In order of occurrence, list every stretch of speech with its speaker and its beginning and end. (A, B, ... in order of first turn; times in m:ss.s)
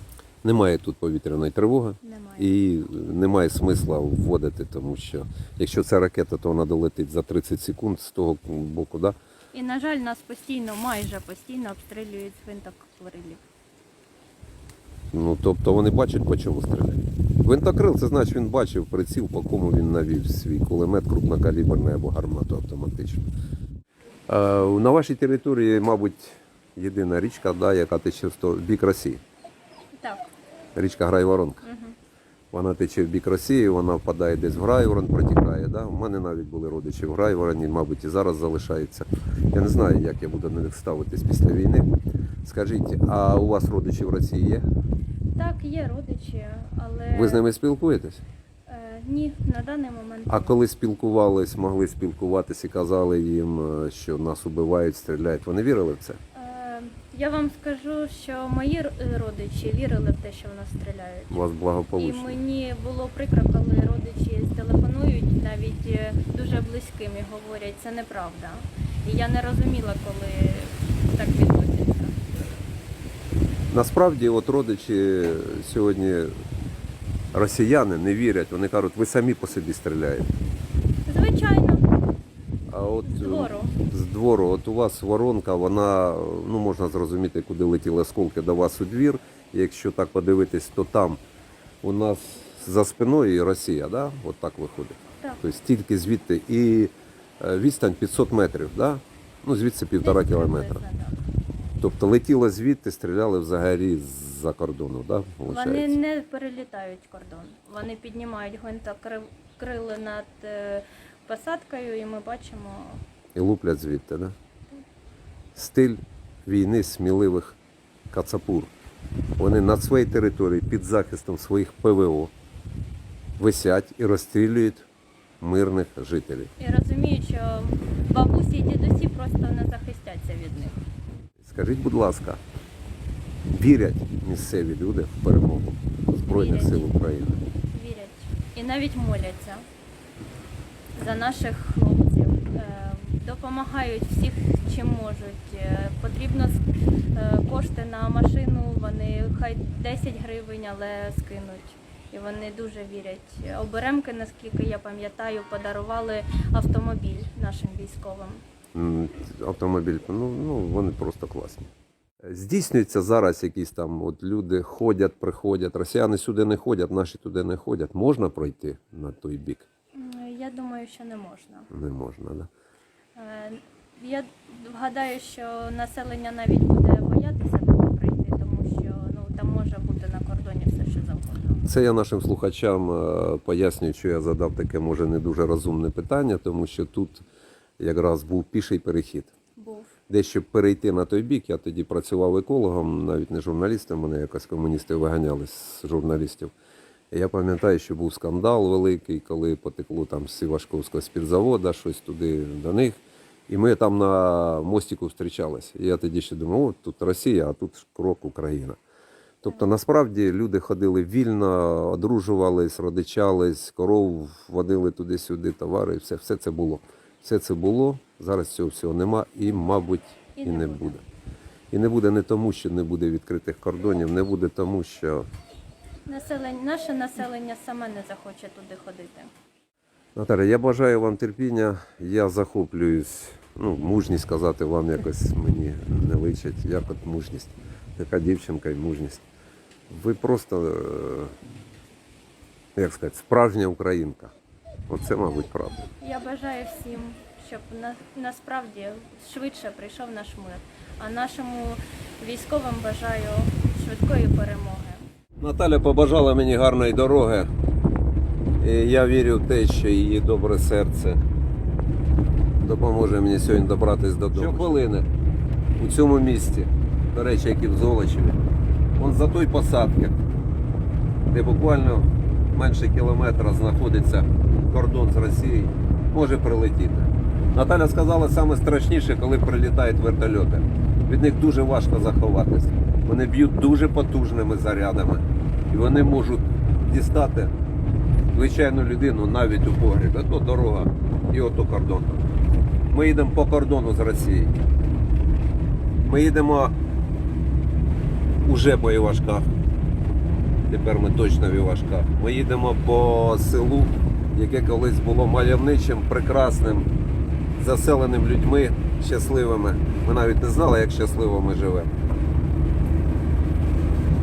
0:00.4-0:09.2 A
0:02.0-0:02.5 B
0:09.5-0:13.4 B
0:15.1-0:23.2 A
0:24.3-0:29.2 A
0:30.0-0:30.3 B
0:30.7-0:31.6 A
0:31.6-0:31.9 B
0:32.5-0:41.9 A
0:42.4-0:44.6 A
0:45.3-0:47.4 B
0:47.1-0:48.2 A
0:48.7-0:50.6 B
0:50.3-0:56.2 A
0:56.3-1:01.4 B
1:01.3-1:02.4 A
1:02.0-1:12.1 B
1:13.7-1:16.3 A
1:17.3-1:20.3 A
1:21.0-1:21.8 B
1:22.7-1:31.2 A
1:23.0-1:23.8 B
1:31.8-1:40.8 A
1:40.0-1:41.2 B
1:41.8-1:46.0 A
1:45.4-1:53.0 B
1:53.3-1:54.3 A
1:55.5-1:57.6 A
1:58.1-1:58.7 A
1:59.4-2:02.3 A
2:03.4-2:04.9 A
2:05.4-2:06.5 A
2:06.6-2:10.8 B
2:11.4-2:12.4 A
2:13.5-2:17.4 A
2:16.3-2:16.9 B
2:17.7-2:19.6 B
2:21.0-2:38.4 B
2:38.7-2:41.7 A
2:42.2-2:49.6 A
2:49.9-2:51.7 B
2:51.7-2:52.5 A
2:53.2-3:01.6 B
3:01.6-3:07.2 A
3:07.8-3:09.3 A
3:09.6-3:09.9 B
3:10.1-3:16.5 A
3:17.1-3:28.8 A
3:29.4-3:41.0 A
3:40.4-3:41.0 B
3:41.7-3:45.3 A
3:46.1-3:49.3 B
3:50.2-3:59.2 A
3:59.9-4:01.3 A
4:02.7-4:04.3 A
4:04.9-4:05.9 A
4:06.0-4:15.0 B
4:15.4-4:17.5 A
4:18.6-4:21.2 A
4:22.6-4:25.0 A
4:25.8-4:28.4 A
4:29.0-4:30.2 A
4:31.3-4:47.5 A
4:48.3-4:52.2 A
4:52.9-4:54.6 A
4:56.0-4:56.7 A
4:58.4-4:59.5 A
5:00.7-5:06.9 A
5:07.5-5:11.9 A